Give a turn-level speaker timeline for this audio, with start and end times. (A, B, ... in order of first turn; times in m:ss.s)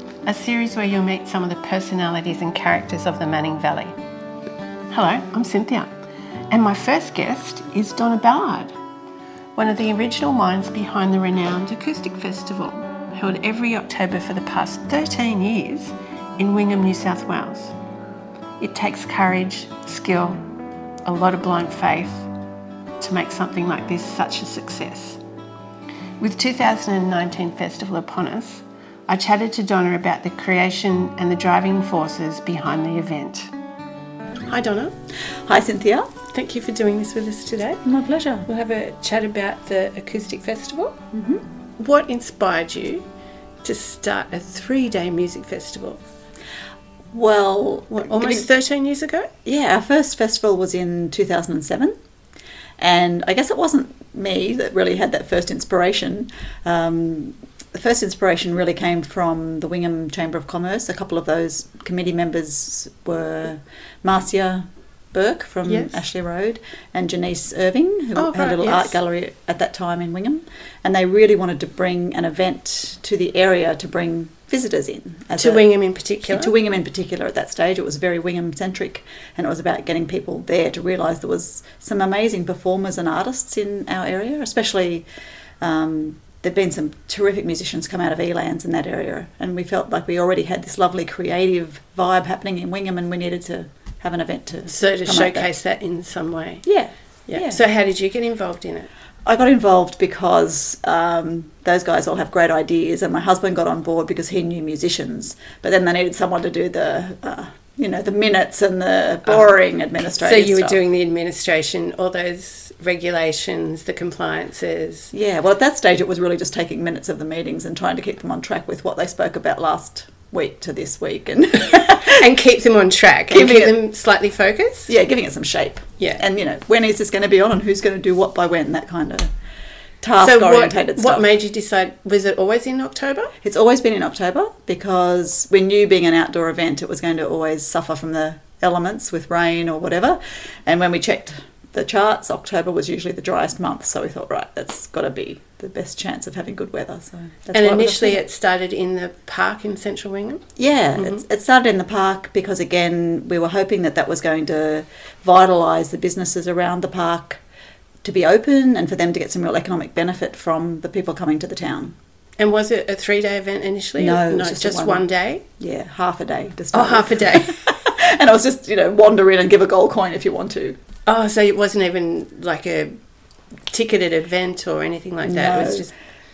0:00.2-0:03.9 A
0:04.9-0:05.9 A
0:06.5-0:08.7 A
0:09.6-0:17.7 A
0:18.6-0:20.4 A
0:21.0-0:22.3 A
0:23.0-0:25.2 A
0:26.2-0:33.5 A
0:34.4-0:34.9 A
0:35.4-0:36.1 B
0:36.3-0:37.8 A
0:37.8-0:38.4 B
0:38.5-0:41.0 A
0:41.1-0:41.4 B
0:41.8-0:43.0 A
0:43.6-0:46.0 A
0:47.1-0:48.4 B
0:47.9-0:49.3 A
0:49.4-0:51.9 B
0:52.8-1:15.6 B
1:05.6-1:06.0 A
1:08.2-1:08.9 A
1:15.4-1:16.5 A
1:16.3-1:25.0 B
1:25.6-1:35.5 B
1:34.7-1:36.6 A
1:36.6-1:37.6 B
1:37.3-1:38.9 A
1:39.2-1:50.8 B
1:50.0-1:55.1 A
1:55.1-2:02.2 B
2:01.9-2:04.9 A
2:03.3-2:03.8 B
2:04.9-2:09.3 B
2:10.0-2:11.3 B
2:10.2-2:13.3 A
2:13.4-2:28.2 B
2:27.5-2:30.4 A
2:30.6-2:37.4 B
2:38.0-2:41.9 B
2:42.4-2:45.4 A
2:44.0-2:45.1 B
2:45.6-2:50.8 B
2:46.7-2:47.6 A
2:51.0-2:53.0 A
2:53.7-2:55.9 A
2:55.2-2:55.9 B